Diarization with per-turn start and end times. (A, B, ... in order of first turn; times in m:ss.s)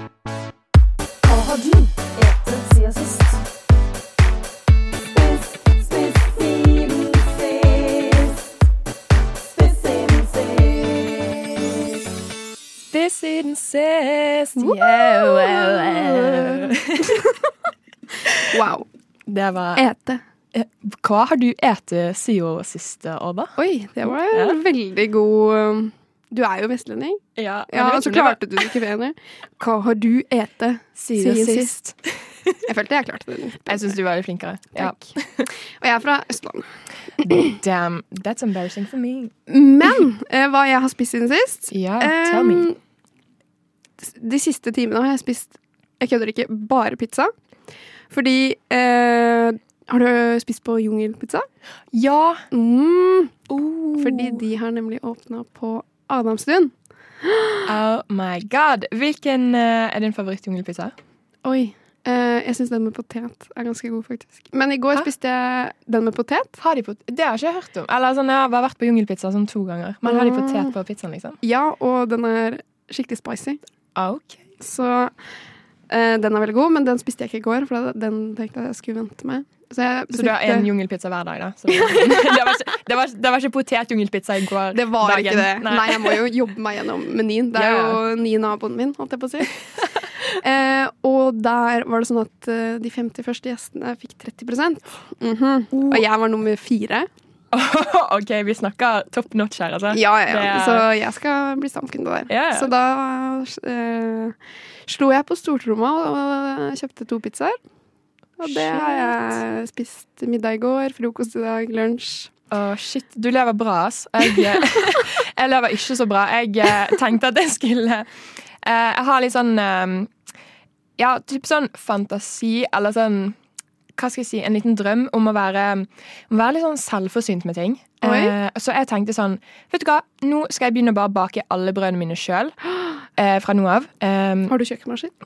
0:01.2-0:03.4 A
0:05.2-0:08.4 A
0:09.6-0:11.5 A
0:12.9-0:17.3 B
0:14.6-0:17.3 C
0:18.5-0:18.9 C
0:19.3-0:19.8 B
0:19.8-0:20.2 C
0:20.5-0:23.5 B
0:23.6-0:31.8 C
0:24.1-0:24.6 B
0:27.4-0:28.7 B
0:31.0-0:32.6 B
0:32.7-0:34.0 C
0:33.7-0:35.5 B
0:34.8-0:35.1 C
0:35.8-0:36.7 C
0:37.2-0:39.3 B
0:39.5-0:42.8 C
0:41.7-0:42.7 B
0:44.0-0:47.3 C
0:48.1-0:51.5 C
0:51.9-0:52.4 B
0:52.5-0:53.4 C
0:53.5-0:54.4 B
0:54.0-0:57.7 C
0:57.7-1:00.9 B
1:01.4-1:06.6 C
1:06.6-1:11.4 B
1:10.0-1:10.7 C
1:11.4-1:13.6 C
1:14.0-1:14.4 B
1:14.6-1:15.1 C
1:15.9-1:20.7 C
1:20.1-1:26.2 B
1:21.7-1:22.5 C
1:24.7-1:29.6 C
1:27.5-1:28.0 B
1:30.4-1:37.1 C
1:35.7-1:36.0 B
1:37.5-1:40.9 B
1:39.9-1:44.4 C
1:42.3-1:42.7 B
1:44.9-1:47.6 C
1:48.4-1:52.3 C
1:48.4-1:49.3 B
1:52.5-1:58.1 B
1:58.6-2:00.1 B
2:01.0-2:03.4 B
2:04.0-2:12.6 B
2:08.0-2:08.3 C
2:13.1-2:14.6 B
2:14.5-2:15.1 C